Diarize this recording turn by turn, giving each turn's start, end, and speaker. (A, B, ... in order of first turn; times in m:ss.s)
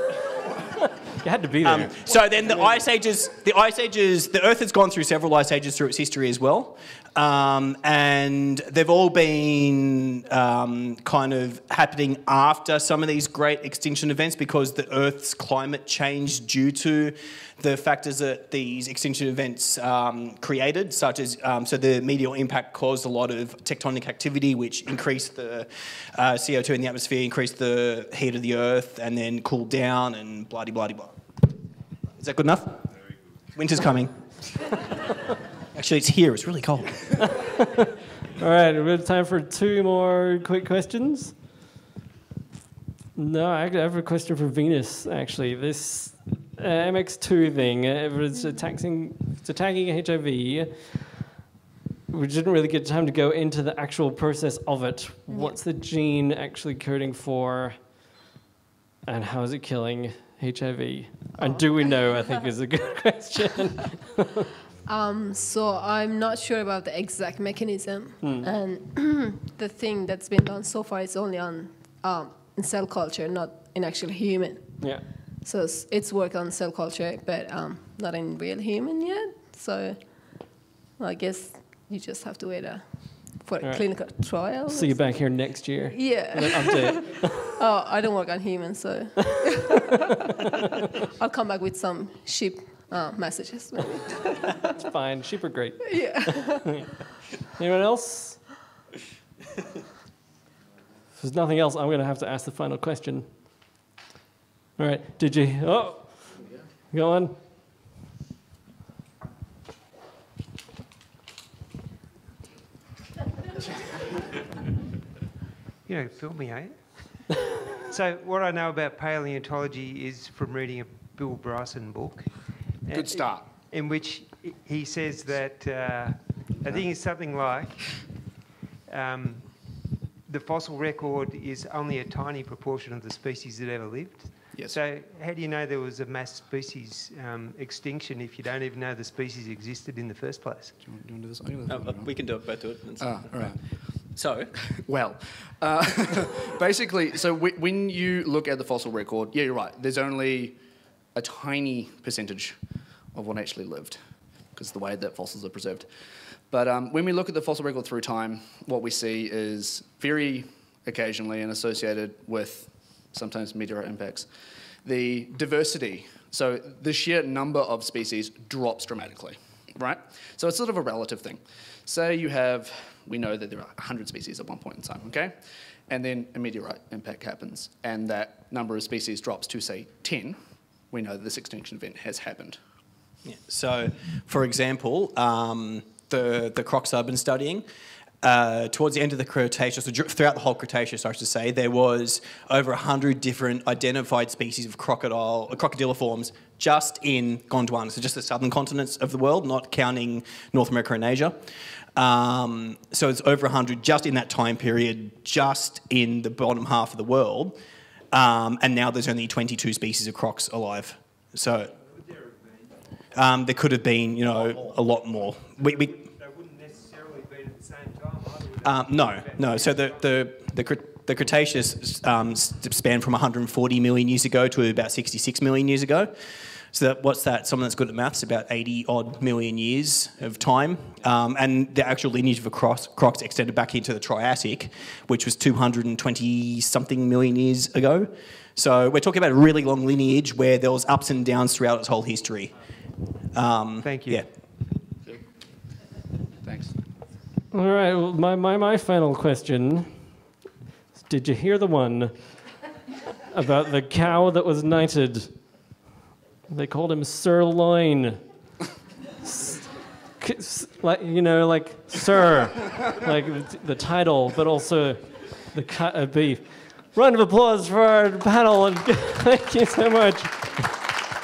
0:01.2-0:02.0 A
0:01.6-0:31.2 B
0:32.2-0:32.9 B
0:33.5-0:34.4 B
0:35.7-0:37.3 B
0:38.4-0:41.4 A
0:43.2-0:51.3 A
0:52.1-0:58.0 A
0:59.0-1:04.4 A
1:04.8-1:29.9 C
1:08.2-1:08.5 A
1:14.8-1:15.1 A
1:23.6-1:27.5 A
1:31.2-1:34.2 C
1:34.7-1:37.0 A
1:35.9-1:36.9 C
1:37.6-1:38.5 A
1:41.2-1:43.6 A
1:44.8-1:47.4 A
1:55.8-2:08.3 D
2:02.9-2:03.5 E
2:08.9-2:20.8 D
2:14.5-2:14.8 E
2:20.8-2:22.3 E
2:21.6-2:24.5 B
2:23.0-2:24.1 E
2:24.8-2:30.6 E
2:31.1-2:32.6 E
2:33.1-2:34.0 E
2:34.5-2:35.9 E
2:36.5-2:44.3 E
2:44.8-2:55.4 E
2:55.9-3:00.4 E
3:00.9-3:02.6 E
3:03.2-3:07.6 B
3:08.2-3:21.4 B
3:22.0-3:27.6 B
3:28.1-3:31.7 B
3:31.7-3:32.8 D
3:33.1-3:36.0 B
3:35.6-3:40.0 D
3:38.6-3:46.1 B
3:46.7-4:02.5 B
4:03.3-4:04.3 B
4:03.8-4:04.2 D
4:06.4-4:06.7 E
4:07.5-4:10.2 A
4:11.0-4:12.4 A
4:13.3-4:15.6 A
4:16.5-4:18.3 A
4:19.2-4:30.8 A